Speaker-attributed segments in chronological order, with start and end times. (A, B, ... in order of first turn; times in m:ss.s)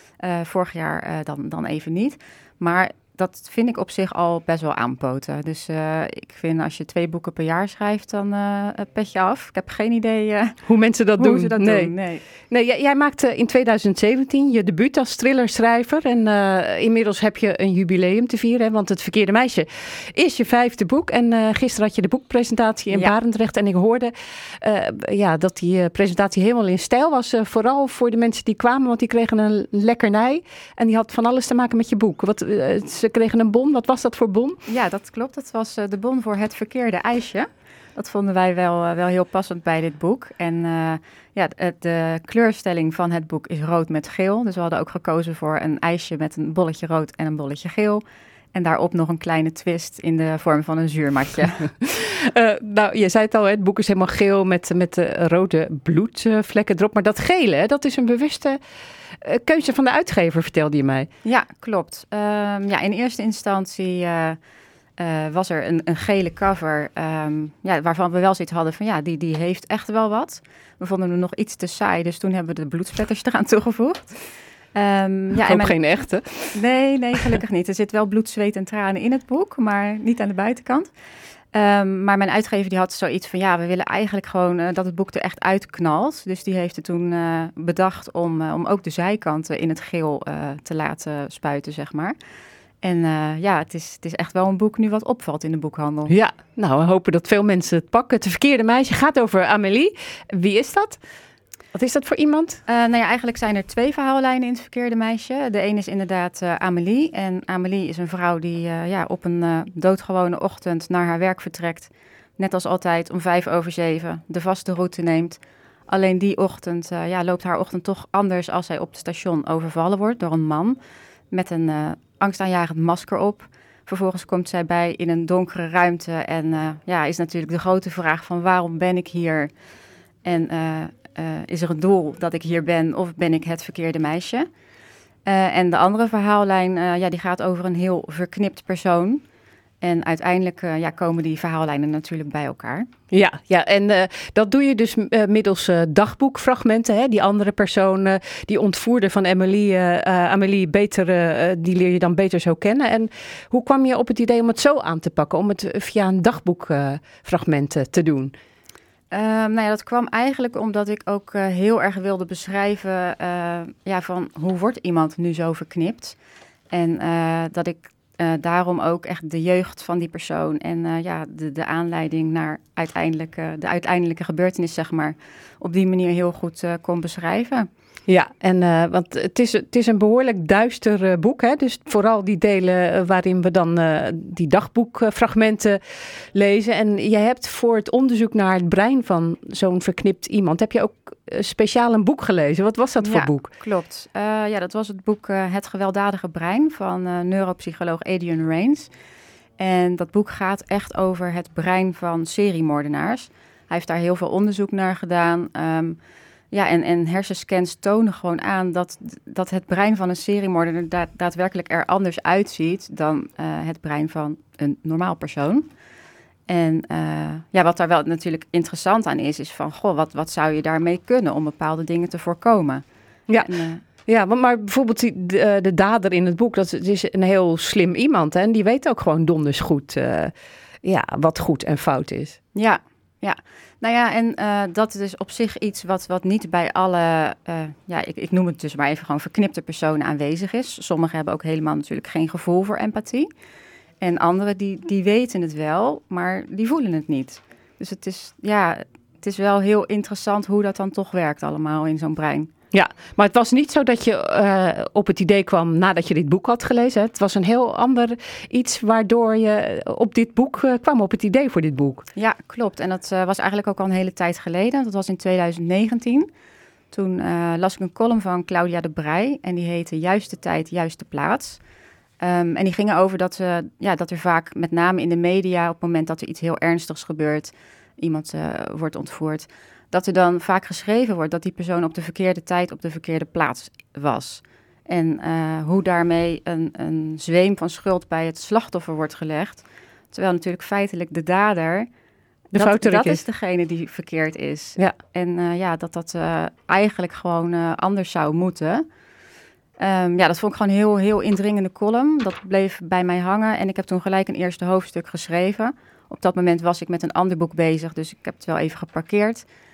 0:00.2-0:10.5 A
0:10.7-0:11.9 B
0:11.2-0:12.2 A
0:12.5-0:34.6 B
0:34.7-0:48.0 A
0:48.5-0:51.7 A
0:51.8-0:58.6 B
0:59.2-1:01.1 B
1:01.2-1:04.4 A
1:05.0-1:14.1 A
1:14.7-1:15.9 A
1:15.4-1:16.6 B
1:16.5-1:20.9 A
1:21.5-1:32.1 A
1:32.8-1:36.1 A
1:36.1-1:41.0 B
1:41.7-1:42.6 B
1:42.7-2:00.8 A
2:01.3-2:09.5 A
2:10.2-2:14.5 A
2:15.3-2:19.2 A
2:19.8-2:22.9 A
2:23.1-2:38.3 B
2:39.1-2:46.1 A
2:46.7-2:57.7 A
2:58.1-3:05.8 B
3:06.3-3:13.5 B
3:13.0-3:18.9 A
3:19.6-3:26.0 A
3:26.5-3:35.7 A
3:36.5-3:42.8 A
3:43.3-3:43.8 A
3:44.1-3:50.3 B
3:50.8-3:52.4 B
3:52.6-4:03.3 A
4:04.0-4:12.5 A
4:12.7-4:22.0 B
4:22.2-4:26.3 A
4:26.9-4:31.6 A
4:32.2-4:51.9 A
4:52.5-4:53.2 B
4:52.6-4:58.8 A
4:59.8-5:09.4 A